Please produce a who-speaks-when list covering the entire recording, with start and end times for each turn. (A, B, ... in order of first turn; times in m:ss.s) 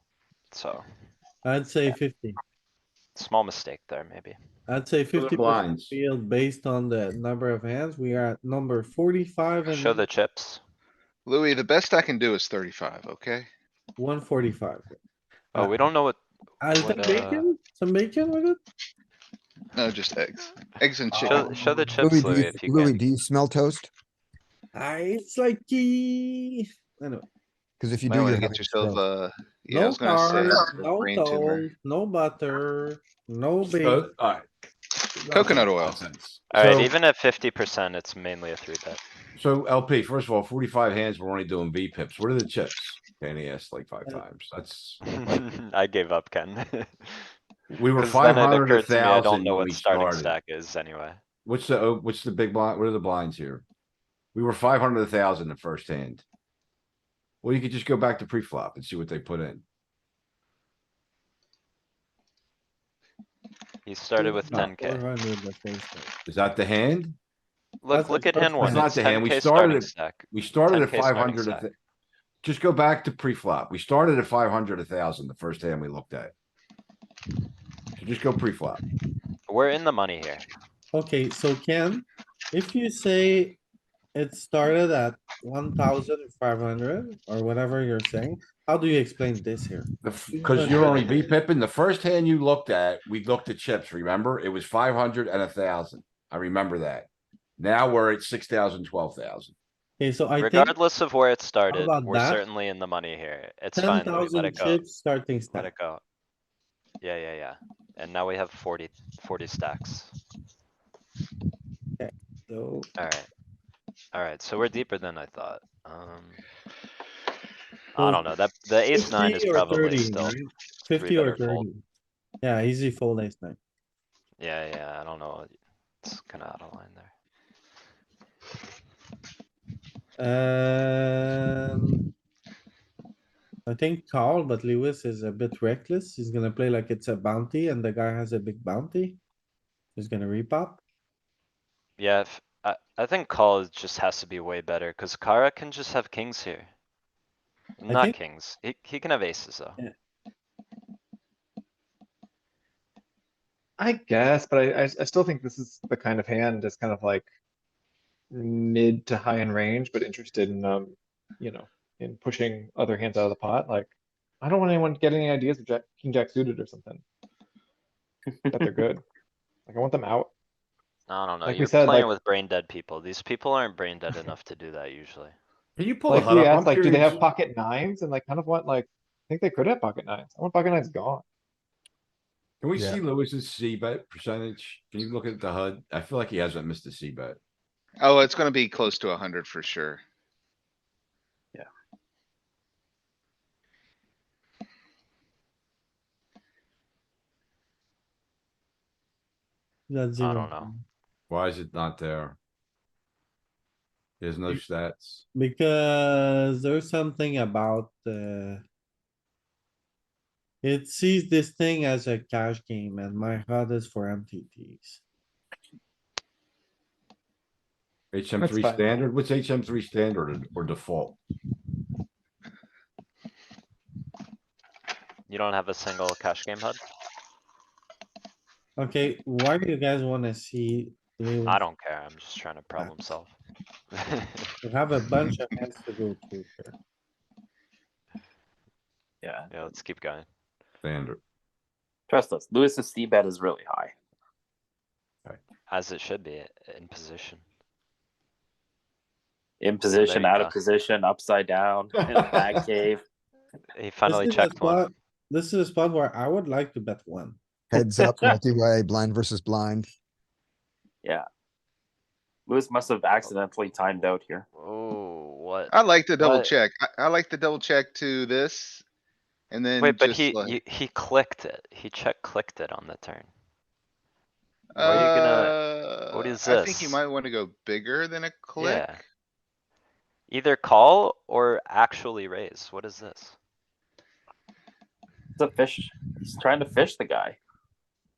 0:00.5-0:00.8 A
0:01.4-0:02.4 B
0:03.2-0:04.4 A
0:04.7-0:10.0 B
0:05.1-0:06.0 C
0:09.7-0:10.6 A
0:11.3-0:13.5 D
0:14.0-0:15.0 B
0:15.5-0:17.5 A
0:16.6-0:18.6 B
0:19.7-0:21.5 D
0:21.1-0:21.9 B
0:21.2-0:23.0 A
0:22.0-0:23.9 E
0:24.8-0:27.2 B
0:27.8-0:29.0 E
0:28.0-0:31.7 D
0:29.7-0:34.1 B
0:33.7-0:34.5 C
0:35.2-0:36.9 C
0:35.3-0:36.0 D
0:36.5-0:39.0 A
0:39.4-0:45.0 C
0:45.1-0:47.3 A
0:47.7-0:50.4 C
0:48.0-0:51.2 A
0:51.4-0:53.6 C
0:54.3-0:56.2 C
0:57.4-0:59.6 C
1:03.9-1:05.0 A
1:04.2-1:06.2 B
1:06.3-1:07.2 C
1:07.8-1:11.7 A
1:07.9-1:08.9 B
1:08.6-1:11.7 C
1:12.4-1:16.3 C
1:18.0-1:18.8 C
1:19.5-1:20.5 A
1:20.9-1:23.6 B
1:24.1-1:31.3 B
1:30.0-1:39.6 C
1:30.6-1:30.9 A
1:40.0-1:40.8 B
1:40.4-1:44.8 A
1:41.7-1:42.4 B
1:43.8-1:45.7 B
1:45.5-1:46.0 A
1:47.0-1:50.1 A
1:52.0-1:52.9 B
1:53.0-1:53.3 A
1:54.1-1:56.4 A
1:58.0-2:00.4 A
1:58.0-1:58.2 B
1:58.9-2:01.8 B
2:00.9-2:01.7 A
2:02.4-2:03.6 B
2:04.4-2:07.1 A
2:10.2-2:12.0 B
2:13.7-2:19.2 B
2:20.0-2:20.8 B
2:22.0-2:26.7 A
2:27.8-2:29.8 A
2:27.9-2:28.2 B
2:33.8-2:37.3 F
2:38.3-2:47.0 F
2:48.5-2:49.0 F
2:49.7-2:50.3 F
2:51.1-2:55.4 A
2:51.5-2:52.1 F
2:55.8-2:57.2 C
2:56.1-3:01.2 F
3:02.6-3:07.4 C
3:08.0-3:10.0 D
3:19.9-3:20.8 B
3:20.2-3:20.7 A
3:21.3-3:22.4 C
3:24.2-3:25.2 C
3:25.3-3:28.6 B
3:30.6-3:35.0 B
3:38.1-3:41.2 C
3:38.4-3:38.9 F
3:45.3-3:46.8 A
3:48.8-3:51.6 B
3:51.5-3:53.3 A
3:52.8-3:53.2 B
3:53.9-3:54.5 A
3:54.6-3:56.8 B
3:59.2-3:59.5 G
3:59.5-4:00.3 A
4:00.8-4:01.2 C
4:02.1-4:03.9 G
4:05.7-4:07.4 A
4:09.6-4:13.0 G
4:10.0-4:10.5 A
4:13.7-4:14.9 A
4:14.1-4:17.4 B
4:17.7-4:19.9 E
4:22.5-4:24.5 G
4:24.6-4:26.5 A
4:25.7-4:28.8 D
4:29.5-4:30.6 D
4:29.8-4:33.3 A
4:34.7-4:39.0 D
4:34.8-4:37.0 A
4:38.6-4:39.0 A
4:40.3-4:43.4 A
4:45.4-4:47.4 G